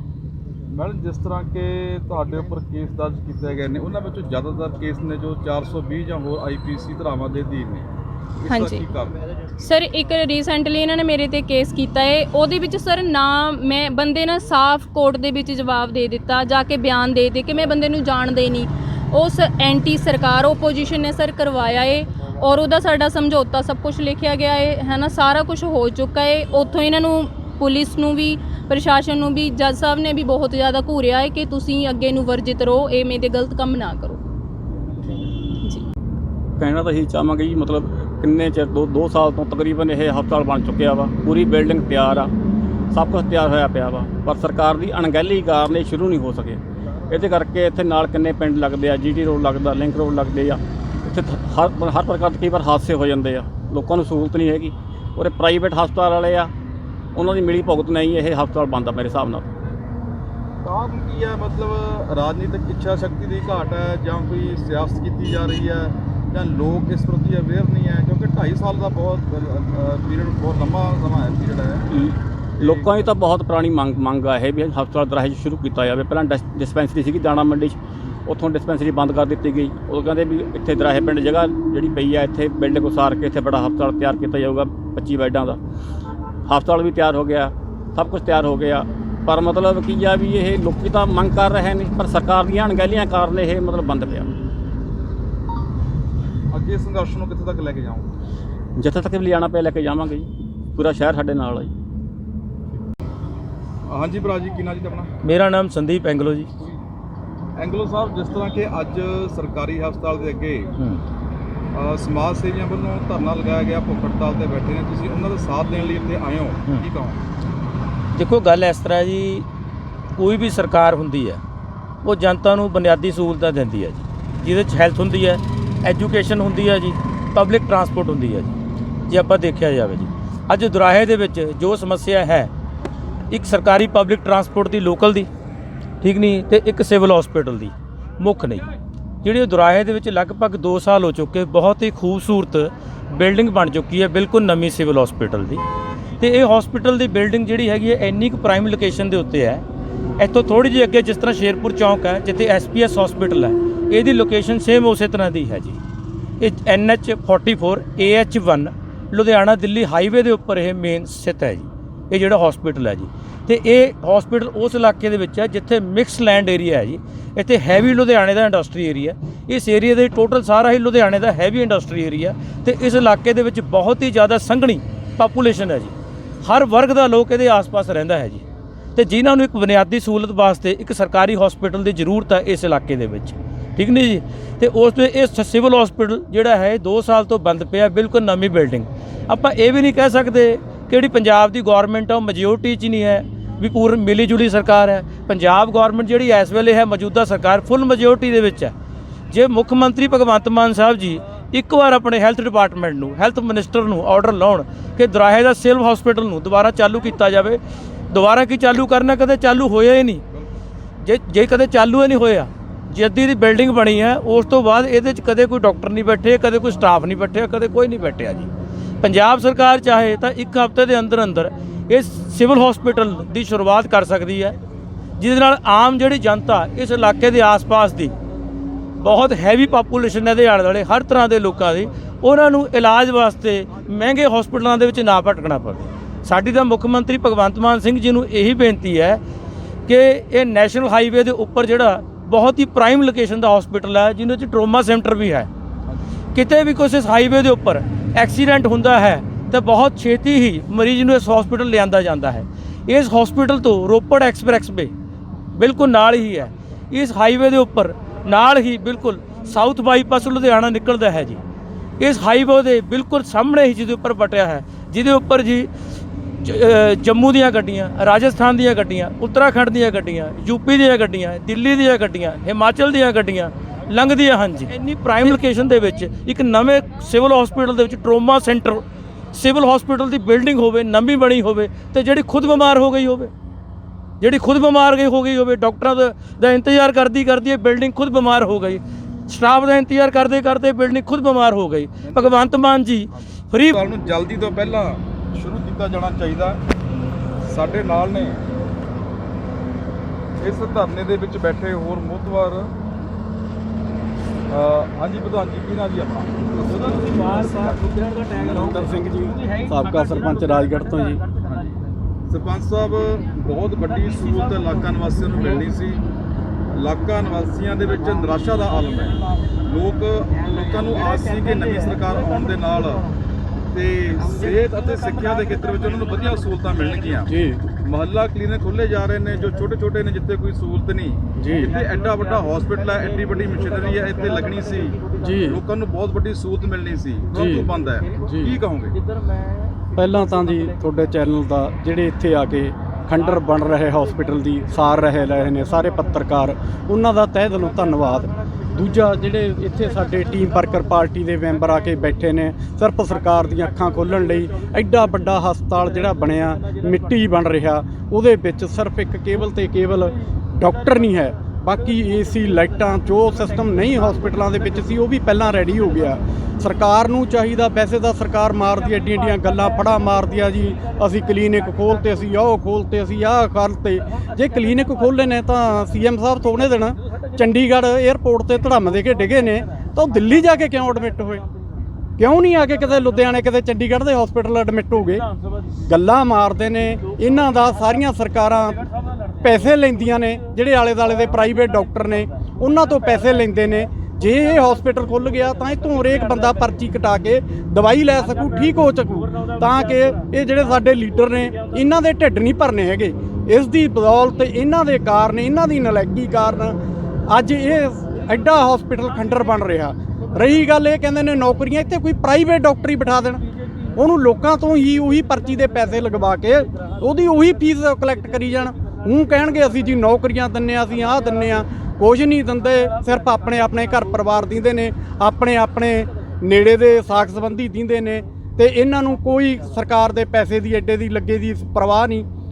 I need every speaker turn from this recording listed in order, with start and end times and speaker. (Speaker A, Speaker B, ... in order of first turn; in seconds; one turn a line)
Speaker A: 0.7-7.9
Speaker A: 8.4-9.1
Speaker B: 8.5-8.8
Speaker B: 9.6-34.2
Speaker C: 36.6-42.3
Speaker C: 42.9-56.5
Speaker C: 57.1-59.5
Speaker A: 60.6-71.9
Speaker C: 71.9-77.8
Speaker A: 72.6-73.0
Speaker C: 78.3-85.6
Speaker C: 86.5-94.3
Speaker A: 96.5-98.1
Speaker C: 98.8-101.7
Speaker A: 103.9-105.1
Speaker D: 105.2-106.5
Speaker A: 107.5-110.7
Speaker A: 111.7-117.2
Speaker D: 118.1-119.5
Speaker D: 120.2-121.4
Speaker D: 122.0-128.5
Speaker D: 129.1-132.5
Speaker D: 133.3-135.3
Speaker D: 136.0-138.7
Speaker D: 139.2-145.6
Speaker D: 146.2-149.6
Speaker D: 150.2-155.8
Speaker D: 156.4-178.4
Speaker D: 178.9-198.7
Speaker D: 199.3-210.2
Speaker D: 211.0-218.5
Speaker D: 219.0-224.6
Speaker D: 225.2-228.1
Speaker D: 229.0-239.2
Speaker D: 239.9-245.5
Speaker D: 246.3-254.9
Speaker D: 255.5-261.4
Speaker D: 262.0-265.7
Speaker D: 266.4-283.3
Speaker D: 284.2-293.8
Speaker A: 292.0-292.5
Speaker A: 293.1-296.6
Speaker A: 297.4-298.4
Speaker A: 300.4-302.7
Speaker A: 304.5-307.9
Speaker E: 308.3-311.2
Speaker A: 311.4-311.7
Speaker A: 312.3-316.0
Speaker A: 316.7-323.0
Speaker A: 323.7-327.3
Speaker E: 327.3-327.6
Speaker A: 327.8-338.9
Speaker E: 331.4-331.7
Speaker E: 335.1-335.6
Speaker E: 337.3-337.7
Speaker E: 338.2-338.5
Speaker E: 339.9-381.4
Speaker E: 382.2-385.3
Speaker E: 385.8-388.8
Speaker E: 389.4-406.8
Speaker E: 407.3-413.4
Speaker E: 413.9-432.2